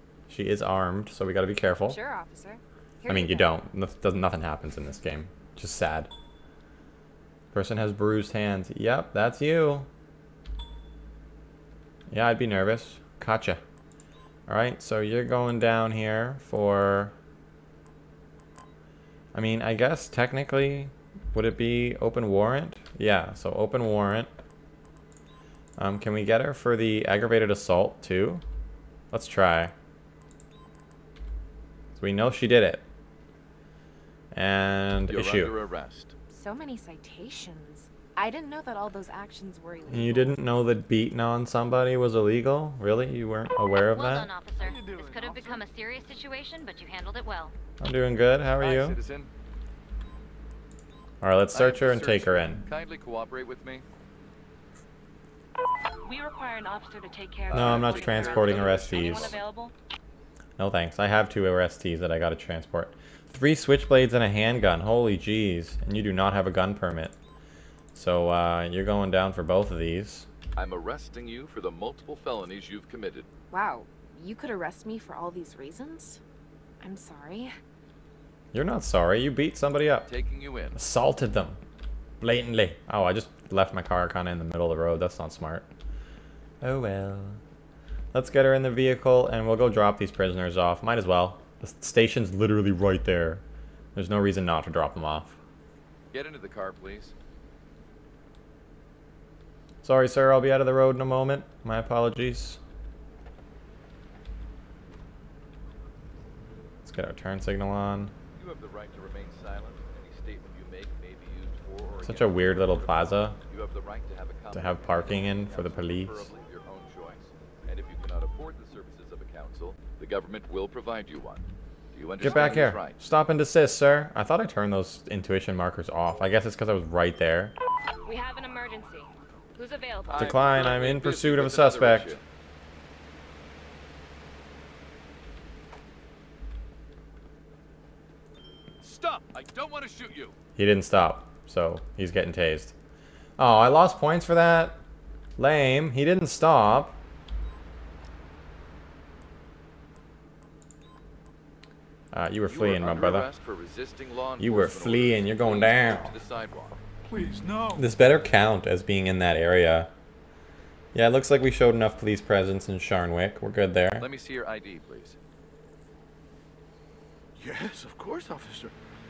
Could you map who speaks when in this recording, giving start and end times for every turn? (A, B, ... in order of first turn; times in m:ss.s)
0:00.3-0:02.0 A
0:01.8-0:03.6 B
0:03.1-0:06.1 A
0:07.5-0:09.9 A
0:12.1-0:13.6 A
0:14.5-0:17.1 A
0:19.3-0:24.3 A
0:25.8-0:28.4 A
0:29.1-0:29.7 A
0:32.0-0:32.8 A
0:34.3-0:35.6 A
0:35.1-0:36.1 C
0:36.3-0:40.4 B
0:39.9-0:44.3 A
0:43.9-0:47.6 D
0:44.6-0:45.7 E
0:47.8-0:49.0 A
0:48.6-0:49.3 C
0:51.2-0:52.6 A
0:51.5-0:53.8 C
0:56.0-0:59.7 F
0:57.5-0:59.4 C
0:57.5-0:59.4 A
1:00.6-1:07.2 A
1:08.0-1:10.3 A
1:10.6-1:13.3 C
1:13.5-1:16.2 B
1:16.8-1:17.6 B
1:18.5-1:20.1 A
1:20.1-1:20.8 C
1:20.8-1:21.6 A
1:22.2-1:25.7 A
1:26.6-1:27.4 A
1:28.1-1:33.4 A
1:34.0-1:35.4 A
1:36.1-1:37.1 C
1:39.8-1:42.6 A
1:46.8-1:48.1 A
1:48.4-2:03.0 C
1:52.0-1:53.4 A
1:54.5-1:56.3 A
2:02.2-2:07.6 A
2:02.2-2:02.7 F
2:08.0-2:10.7 F
2:10.1-2:12.2 C
2:10.1-2:12.2 A
2:18.8-2:20.4 C
2:20.6-2:22.8 A
2:23.4-2:24.8 A
2:25.4-2:27.0 A
2:32.1-2:33.3 A
2:32.4-2:36.8 C
2:34.4-2:36.2 A
2:37.1-2:37.9 E
2:37.8-2:39.9 A
2:40.9-2:44.1 A
2:44.0-2:45.2 C
2:47.4-2:48.7 E